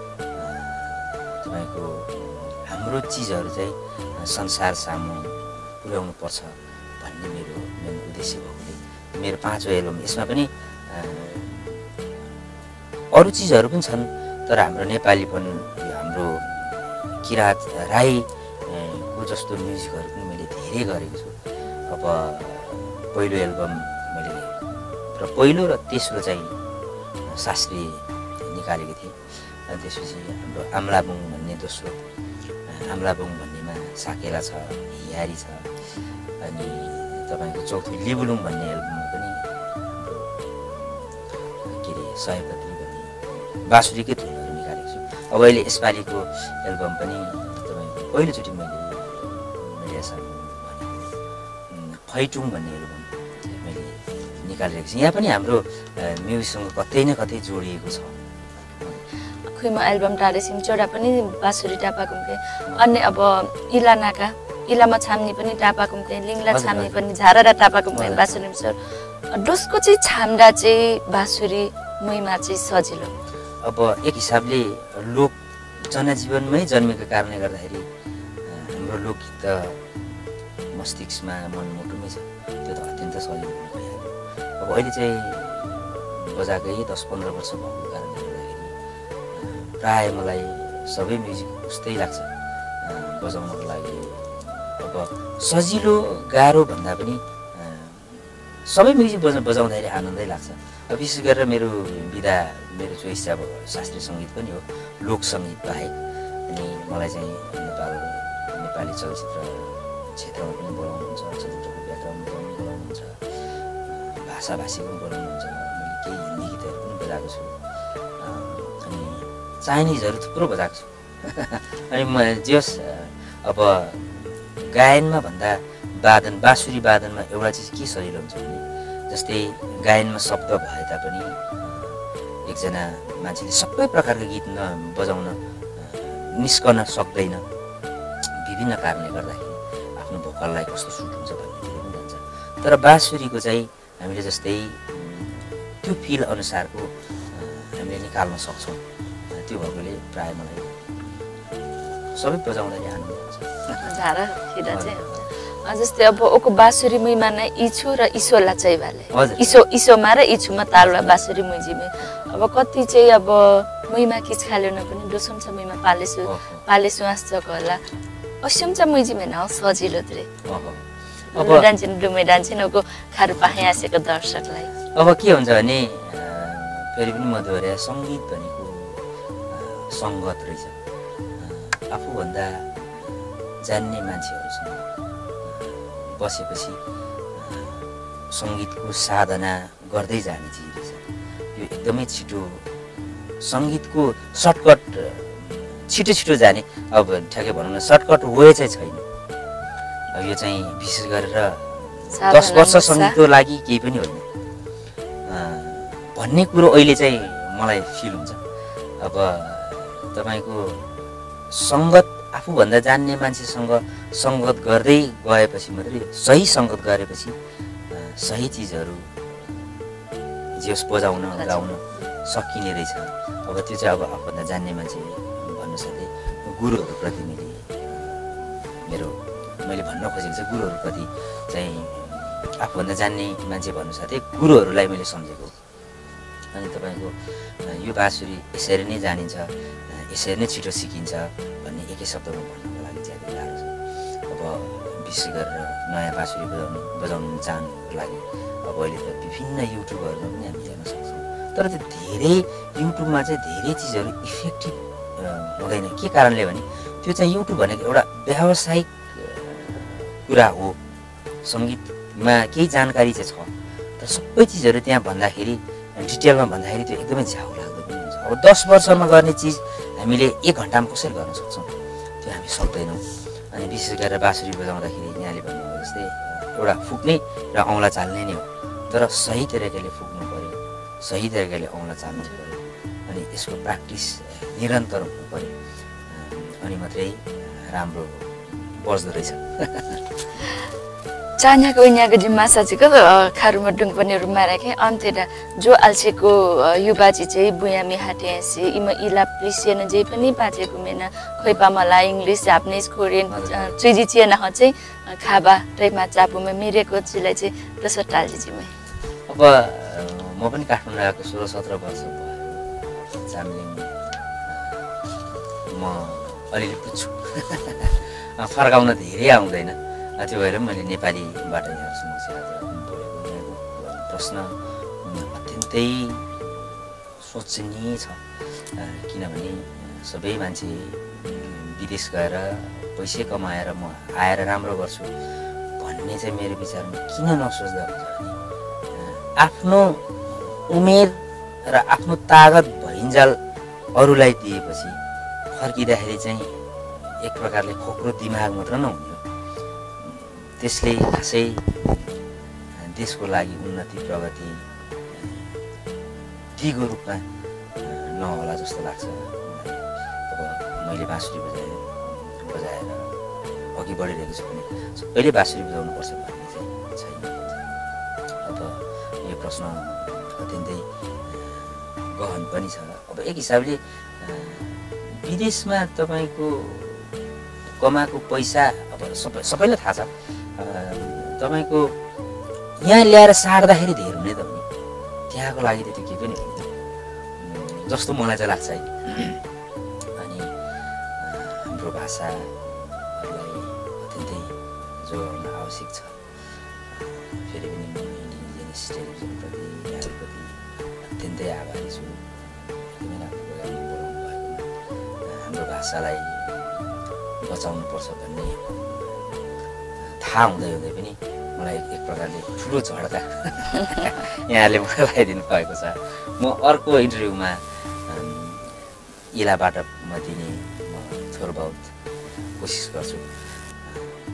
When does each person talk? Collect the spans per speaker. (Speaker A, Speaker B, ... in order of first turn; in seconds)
Speaker A: 0.4-11.8, 13.1-26.7, 27.2-32.0, 32.7-35.7, 36.4-41.0, 41.6-51.1, 51.7-53.1, 53.6-58.2, 66.5-67.0, 67.9-68.4, 73.6-77.9, 78.4-80.1, 80.7-88.7, 89.3-92.3, 92.8-106.0, 106.5-113.2, 113.9-117.5, 118.2-137.4, 138.4-151.2, 152.1-153.9, 154.7-155.3, 159.1-159.6, 160.8-161.3, 166.2-166.6, 170.4-171.7, 173.4-173.8, 174.9-180.8, 181.4-184.9, 185.4-186.8, 187.3-192.7, 193.4-199.1, 200.1-204.2, 205.2-208.4, 209.0-210.9, 211.5-217.3, 217.9-219.6, 220.5-235.5, 236.5-243.8, 244.3-260.8, 261.4-271.7, 272.2-285.5, 286.1-290.0, 303.3-303.7, 309.3-313.9, 314.4-314.8, 315.6-335.1, 335.8-338.4, 338.9-343.4, 343.9-345.0, 345.5-349.2, 350.0-352.1, 352.7-355.5, 356.6-357.2, 357.8-363.1, 363.7-367.7, 368.4-377.1, 377.8-381.9, 382.8-384.7, 385.3-386.7, 387.4-389.4, 390.2-390.5, 391.2-396.2, 396.9-404.7, 405.2-406.9, 407.4-409.4, 410.0-423.3, 423.8-424.2
Speaker B: 59.5-73.2, 153.8-155.1, 155.6-167.8, 168.4-170.3, 171.3-174.7, 202.1-203.2, 221.3-222.0, 291.4-308.7